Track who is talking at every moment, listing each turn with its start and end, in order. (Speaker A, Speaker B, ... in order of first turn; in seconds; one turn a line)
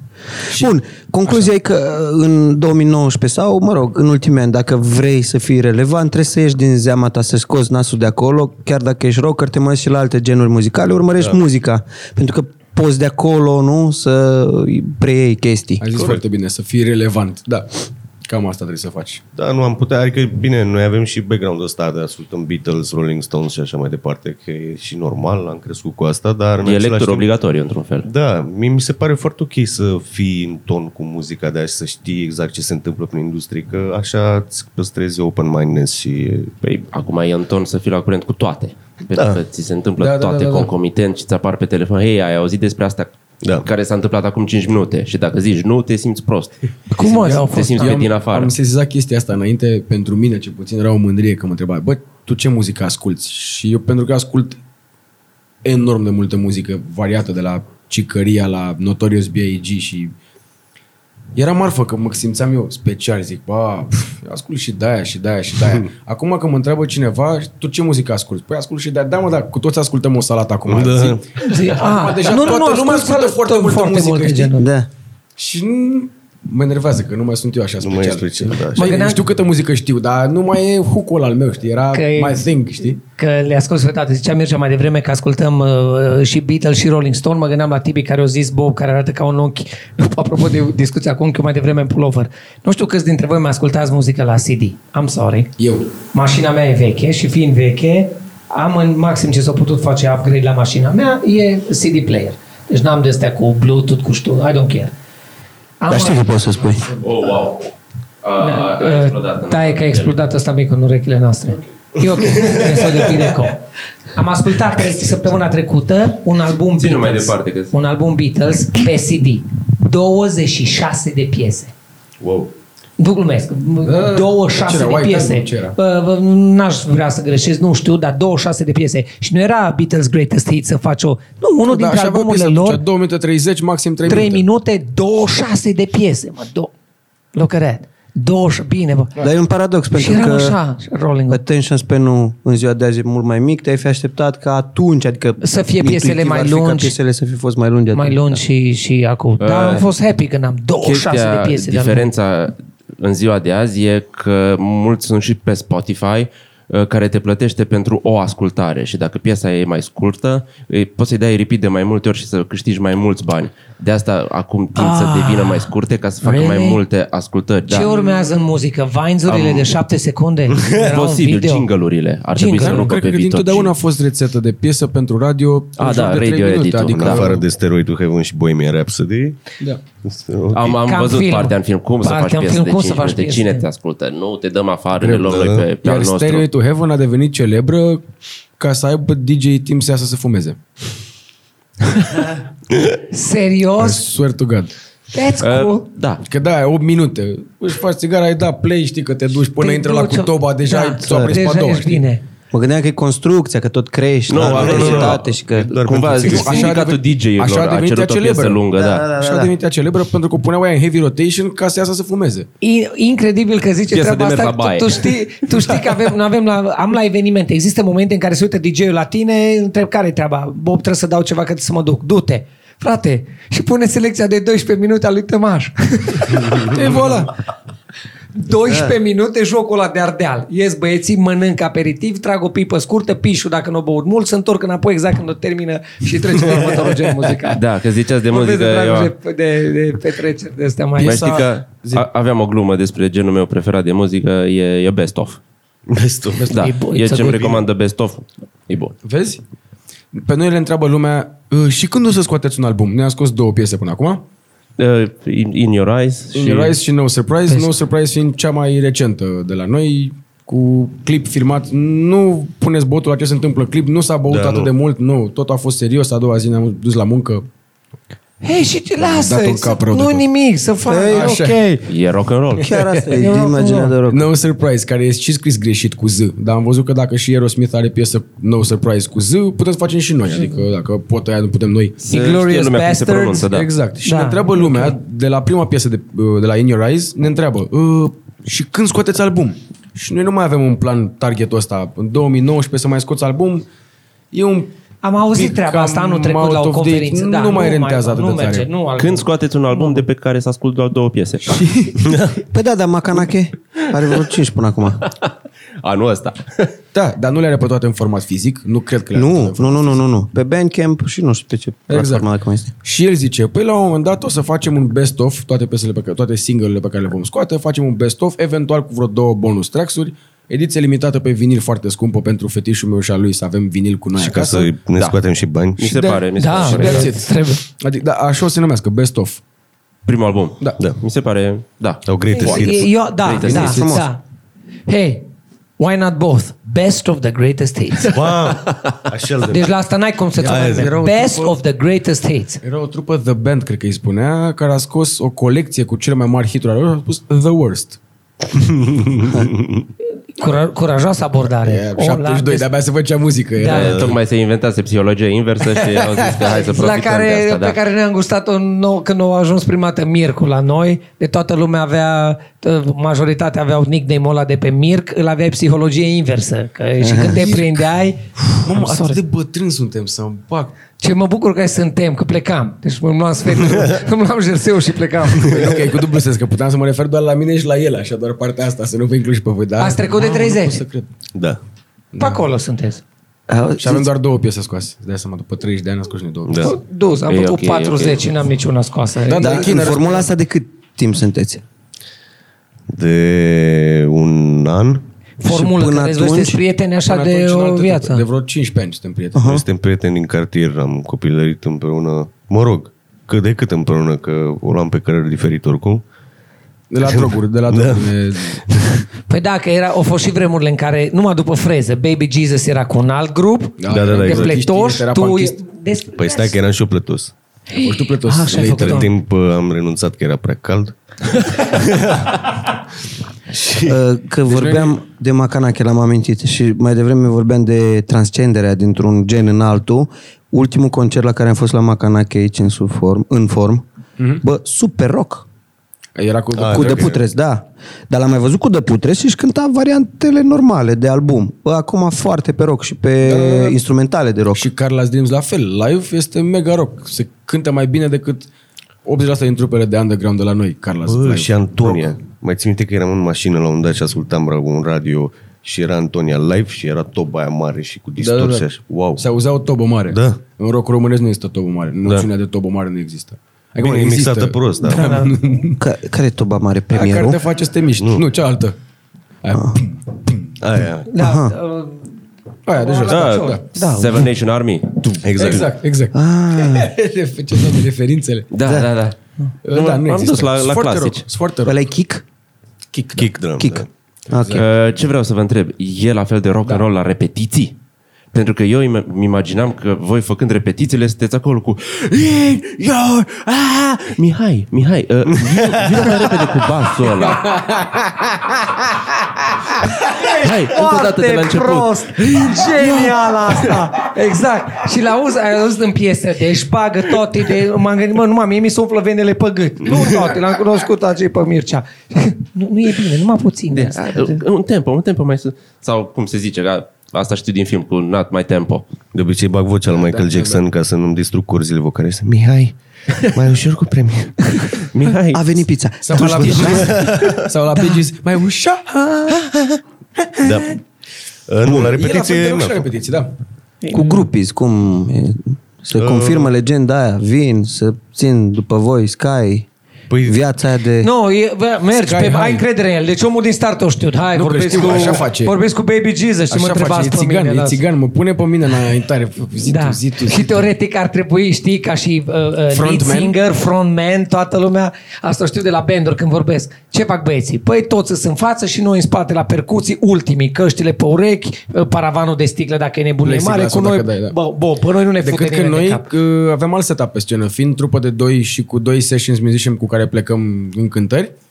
Speaker A: 0.5-15.9
Speaker B: 15.8-19.2
Speaker C: 15.9-16.2
Speaker C: 19.3-27.3
Speaker D: 26.6-28.1
Speaker C: 28.0-36.5
Speaker D: 36.6-48.5
Speaker C: 39.1-39.4
Speaker B: 40.0-40.7
Speaker E: 46.9-48.0
Speaker B: 47.0-54.6
Speaker B: 55.6-60.1
Speaker B: 61.4-74.6
Speaker C: 70.7-71.2
Speaker E: 71.4-74.7
Speaker A: 74.6-74.9
Speaker B: 75.4-83.0
Speaker C: 77.8-79.0
Speaker E: 78.8-79.2
Speaker E: 81.9-82.4
Speaker E: 83.2-95.5
Speaker B: 95.6-95.9
Speaker E: 96.0-104.9
Speaker E: 105.8-106.3
Speaker A: 105.9-107.0
Speaker D: 107.0-107.7
Speaker D: 108.2-110.2
Speaker E: 108.4-113.6
Speaker E: 114.1-121.7
Speaker D: 116.8-117.7
Speaker C: 122.2-122.5
Speaker E: 123.0-132.8
Speaker B: 123.8-125.8
Speaker B: 131.7-134.4
Speaker E: 134.1-136.7
Speaker E: 137.3-139.1
Speaker A: 139.2-140.6
Speaker E: 139.9-141.4
Speaker A: 141.3-148.4
Speaker E: 145.4-147.0
Speaker E: 147.9-152.1
Speaker D: 149.4-149.8
Speaker D: 150.8-167.9
Speaker E: 164.8-165.7
Speaker E: 166.2-166.8
Speaker E: 167.7-171.7
Speaker D: 169.3-169.7
Speaker D: 170.7-173.7
Speaker E: 172.3-172.9
Speaker B: 172.5-177.4
Speaker D: 175.8-177.3
Speaker C: 176.9-179.5
Speaker C: 180.0-180.8
Speaker D: 180.5-186.5
Speaker E: 180.8-183.7
Speaker B: 185.0-188.1
Speaker C: 185.3-185.7
Speaker B: 188.6-190.6
Speaker E: 193.1-194.1
Speaker B: 193.8-194.7
Speaker E: 195.1-195.9
Speaker D: 195.4-196.2
Speaker B: 196.2-202.1
Speaker E: 199.6-202.2
Speaker A: 201.0-201.4
Speaker A: 202.5-205.8
Speaker D: 204.3-209.0
Speaker C: 204.4-206.8
Speaker B: 204.4-205.0
Speaker B: 206.2-212.5
Speaker A: 208.7-209.5
Speaker E: 212.6-226.9
Speaker D: 213.9-215.1
Speaker B: 226.5-227.3
Speaker E: 228.3-237.6
Speaker D: 237.5-239.1
Speaker E: 238.3-241.4
Speaker B: 241.0-242.1
Speaker D: 241.0-245.4
Speaker C: 245.9-246.6
Speaker D: 246.5-248.9
Speaker E: 246.5-247.5
Speaker C: 247.2-247.6
Speaker B: 249.0-249.4
Speaker B: 250.1-254.2
Speaker D: 254.8-256.8
Speaker B: 256.3-267.5
Speaker C: 264.3-264.7
Speaker E: 268.4-271.8
Speaker B: 269.0-270.2
Speaker A: 270.9-271.4
Speaker B: 271.1-271.6
Speaker D: 271.9-272.8
Speaker B: 272.6-273.1
Speaker A: 272.6-274.3
Speaker E: 273.1-273.9
Speaker B: 274.1-282.1
Speaker E: 282.1-283.5
Speaker D: 282.1-283.7
Speaker B: 283.5-293.7
Speaker E: 284.0-285.0
Speaker B: 294.3-294.7
Speaker E: 295.0-300.0
Speaker B: 295.3-298.7
Speaker D: 299.0-301.7
Speaker B: 301.4-302.2
Speaker A: 302.5-305.1
Speaker D: 305.0-305.3
Speaker D: 305.8-306.7
Speaker B: 306.9-310.0
Speaker A: 309.1-312.7
Speaker B: 311.9-312.3
Speaker B: 312.8-324.7
Speaker C: 324.1-325.9
Speaker D: 325.8-327.2
Speaker E: 326.4-327.6
Speaker B: 326.6-329.4
Speaker D: 330.1-333.9
Speaker C: 332.1-332.9
Speaker E: 332.3-334.2
Speaker A: 333.4-334.1
Speaker E: 334.9-335.3
Speaker E: 335.8-338.4
Speaker C: 338.0-339.8
Speaker E: 339.4-342.6
Speaker C: 340.4-341.0
Speaker B: 340.5-341.6
Speaker B: 342.6-348.0
Speaker C: 348.9-349.9
Speaker E: 350.4-352.7
Speaker B: 351.6-354.2
Speaker E: 353.6-354.0
Speaker D: 353.7-357.8
Speaker C: 353.8-354.2
Speaker B: 355.8-356.5
Speaker E: 356.6-369.2
Speaker A: 367.0-367.5
Speaker B: 367.2-367.8
Speaker B: 368.6-370.7
Speaker E: 371.0-375.8
Speaker B: 375.4-381.1
Speaker E: 379.8-380.8
Speaker C: 381.3-381.6
Speaker B: 382.1-382.5
Speaker E: 382.2-383.0
Speaker A: 383.5-384.1
Speaker B: 383.8-386.8
Speaker C: 386.5-386.8
Speaker E: 386.6-389.8
Speaker D: 387.3-388.2
Speaker B: 389.3-390.3
Speaker A: 389.4-391.6
Speaker C: 392.9-395.0
Speaker E: 395.4-398.2
Speaker A: 395.4-396.6
Speaker B: 397.1-399.4
Speaker A: 399.4-399.6
Speaker C: 399.4-406.0
Speaker B: 406.9-408.6
Speaker C: 407.0-409.0
Speaker E: 409.3-416.6
Speaker B: 413.8-415.6
Speaker C: 413.9-414.6
Speaker C: 416.2-417.3
Speaker E: 417.7-419.1
Speaker B: 417.8-419.0
Speaker C: 418.4-422.5
Speaker C: 423.5-424.0
Speaker A: 423.9-433.9
Speaker B: 424.5-425.0
Speaker A: 434.4-435.4
Speaker B: 436.1-437.2
Speaker C: 436.5-437.2
Speaker A: 436.7-444.7
Speaker B: 443.2-443.8
Speaker B: 444.5-448.5
Speaker B: 449.0-452.1
Speaker C: 451.1-459.3
Speaker B: 458.2-458.7
Speaker B: 459.2-465.8
Speaker C: 460.1-460.4
Speaker C: 463.8-465.3
Speaker E: 464.9-465.3
Speaker A: 465.8-467.4
Speaker B: 466.9-468.8
Speaker C: 468.0-468.2
Speaker B: 469.4-470.9
Speaker C: 470.6-471.1
Speaker E: 471.1-472.1
Speaker A: 471.2-471.6
Speaker B: 472.7-473.6
Speaker E: 472.7-473.6
Speaker D: 473.0-475.0
Speaker A: 473.8-474.3
Speaker B: 475.0-478.5
Speaker C: 475.2-475.8
Speaker A: 476.1-476.9
Speaker D: 478.5-479.2
Speaker A: 478.6-478.9
Speaker B: 479.6-481.8
Speaker D: 479.7-481.3
Speaker A: 481.7-482.2
Speaker B: 482.9-483.3
Speaker C: 483.2-483.9
Speaker A: 483.6-484.6
Speaker B: 484.3-484.6
Speaker D: 484.5-487.8
Speaker D: 488.3-497.6
Speaker C: 495.8-496.3
Speaker B: 497.1-498.7
Speaker D: 500.2-502.8
Speaker E: 500.2-514.4
Speaker B: 502.6-503.2
Speaker D: 513.7-518.9
Speaker C: 519.1-522.8
Speaker B: 519.9-520.6
Speaker C: 523.3-524.9
Speaker D: 524.5-525.6
Speaker A: 525.3-527.0
Speaker B: 526.0-529.4
Speaker C: 526.4-527.5
Speaker E: 530.4-530.7
Speaker C: 530.4-530.8
Speaker C: 531.5-532.9
Speaker B: 531.7-533.3
Speaker E: 533.8-534.2
Speaker A: 533.9-539.7
Speaker C: 536.0-536.5
Speaker C: 540.1-540.5
Speaker A: 540.2-541.1
Speaker E: 541.0-547.8
Speaker B: 541.9-542.6
Speaker B: 544.3-545.5
Speaker B: 546.5-550.6
Speaker E: 549.6-566.1
Speaker B: 552.7-553.4
Speaker B: 563.2-564.4
Speaker B: 565.2-571.3